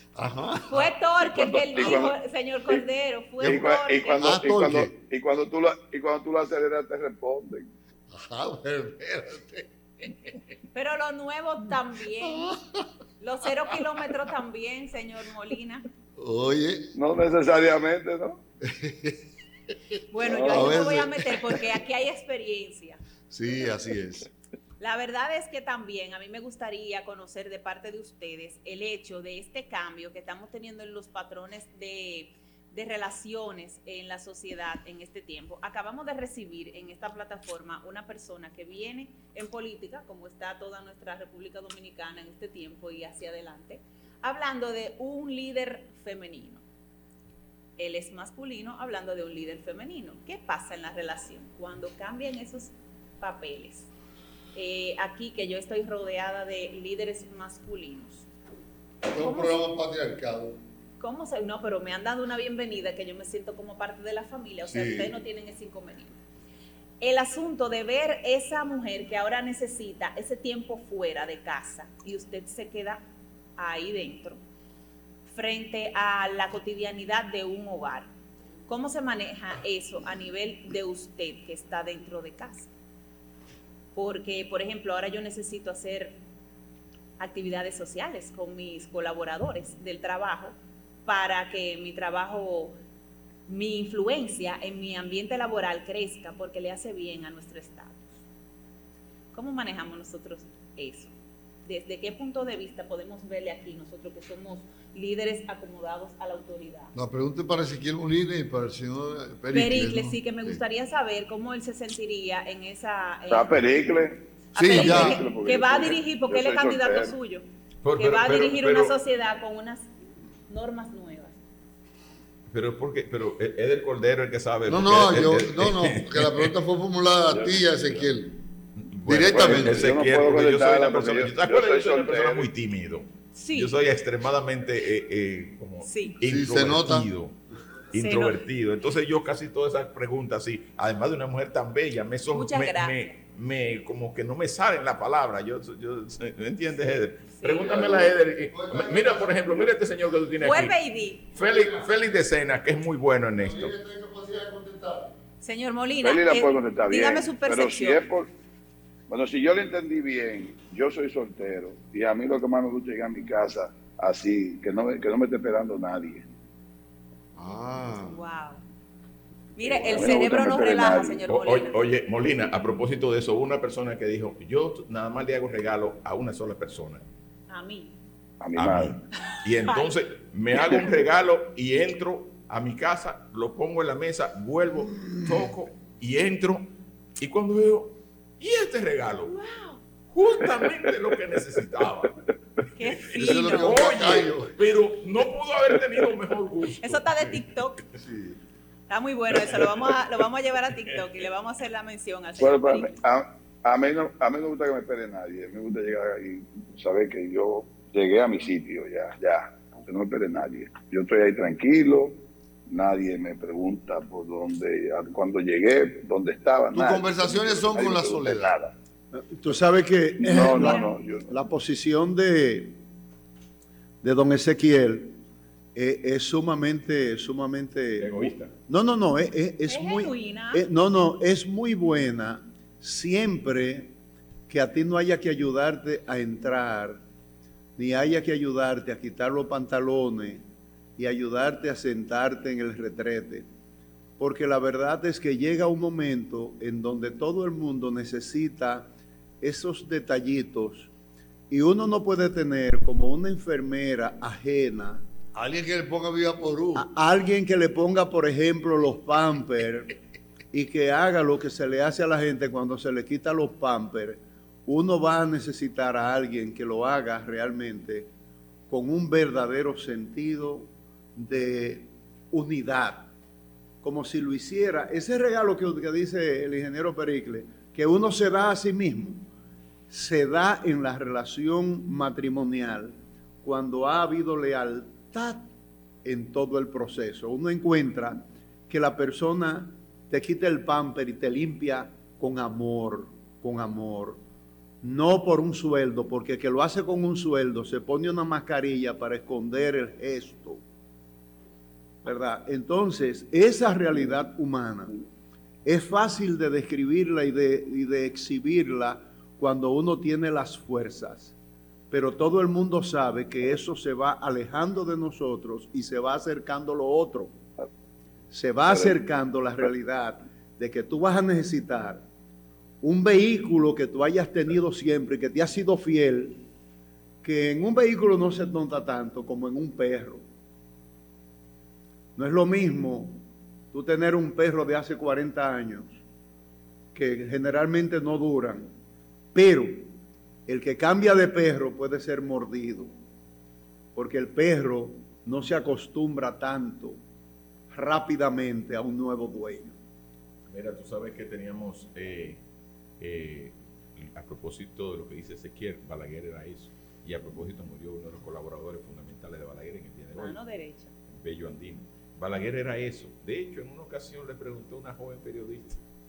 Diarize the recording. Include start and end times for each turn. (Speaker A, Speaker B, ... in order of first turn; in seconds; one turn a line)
Speaker A: 0.1-0.9
Speaker B: 0.7-4.3
Speaker C: 1.2-2.1
Speaker C: 3.4-7.7
Speaker A: 3.4-4.9
Speaker A: 8.1-9.7
Speaker B: 10.7-12.6
Speaker A: 12.2-12.5
Speaker B: 13.2-15.8
Speaker A: 16.2-16.9
Speaker C: 16.9-18.4
Speaker A: 18.6-19.2
Speaker B: 20.1-23.0
Speaker C: 20.2-20.9
Speaker A: 20.3-21.6
Speaker A: 23.3-24.3
Speaker B: 24.8-46.6
Speaker B: 47.8-53.9
Speaker B: 54.5-58.3
Speaker B: 59.1-59.6
Speaker A: 59.1-60.6
Speaker B: 61.0-66.2
Speaker A: 64.7-65.1
Speaker B: 67.0-73.0
Speaker B: 73.6-74.4
Speaker B: 75.2-78.1
Speaker B: 78.7-82.7
Speaker B: 83.9-86.2
Speaker B: 87.2-92.8
Speaker B: 93.5-98.0
Speaker B: 99.3-101.1
Speaker B: 101.7-106.9
Speaker A: 106.9-110.6
Speaker B: 109.5-113.6
Speaker C: 113.3-117.2
Speaker B: 114.5-119.9
Speaker A: 114.5-115.2
Speaker D: 117.8-118.9
Speaker B: 120.5-121.4
Speaker D: 122.5-126.5
Speaker A: 124.7-128.4
Speaker C: 127.3-127.7
Speaker D: 128.8-137.3
Speaker A: 129.0-129.8
Speaker C: 129.3-132.5
Speaker B: 133.3-133.8
Speaker B: 135.8-136.2
Speaker A: 136.2-137.1
Speaker D: 137.9-150.7
Speaker B: 137.9-138.4
Speaker B: 142.3-143.2
Speaker B: 147.4-147.8
Speaker C: 147.7-148.1
Speaker A: 147.8-149.5
Speaker B: 150.4-151.3
Speaker D: 151.3-153.8
Speaker A: 151.4-151.7
Speaker A: 153.4-155.1
Speaker B: 155.4-158.0
Speaker C: 156.0-158.3
Speaker C: 159.1-166.3
Speaker A: 167.3-168.2
Speaker B: 168.0-168.6
Speaker B: 169.6-171.8
Speaker C: 169.6-171.2
Speaker D: 171.3-177.0
Speaker B: 177.5-178.0
Speaker C: 178.4-179.0
Speaker D: 178.5-186.7
Speaker B: 179.2-179.9
Speaker C: 180.5-180.8
Speaker D: 187.2-189.3
Speaker B: 189.3-189.8
Speaker D: 190.1-192.1
Speaker B: 192.7-194.2
Speaker D: 193.1-197.4
Speaker A: 193.1-194.5
Speaker B: 196.8-197.8
Speaker A: 198.0-198.4
Speaker B: 198.9-203.0
Speaker C: 202.4-212.2
Speaker C: 212.7-218.7
Speaker A: 216.7-218.6
Speaker E: 219.1-222.8
Speaker C: 220.2-221.3
Speaker B: 220.6-220.9
Speaker E: 224.0-225.2
Speaker E: 225.7-233.9
Speaker D: 228.0-228.5
Speaker B: 229.6-230.7
Speaker E: 234.5-237.0
Speaker E: 237.8-240.4
Speaker E: 241.0-243.5
Speaker E: 244.2-248.9
Speaker E: 249.4-250.9
Speaker E: 251.5-255.0
Speaker A: 255.3-256.9
Speaker E: 256.7-259.9
Speaker E: 260.5-268.1
Speaker E: 268.7-273.1
Speaker E: 273.8-279.2
Speaker E: 279.9-285.5
Speaker E: 286.0-294.2
Speaker E: 294.8-300.6
Speaker E: 302.0-304.9
Speaker E: 305.6-311.3
Speaker E: 311.9-317.3
Speaker E: 318.3-322.1
Speaker C: 318.6-319.0
Speaker E: 322.8-326.4
Speaker E: 327.2-330.2
Speaker E: 332.1-333.2
Speaker E: 333.7-336.0
Speaker E: 336.9-338.7
Speaker E: 339.3-339.9
Speaker E: 340.5-342.9
Speaker E: 343.9-347.0
Speaker E: 347.7-349.8
Speaker D: 350.5-352.4
Speaker D: 353.0-360.4
Speaker B: 360.1-360.9
Speaker D: 361.1-365.8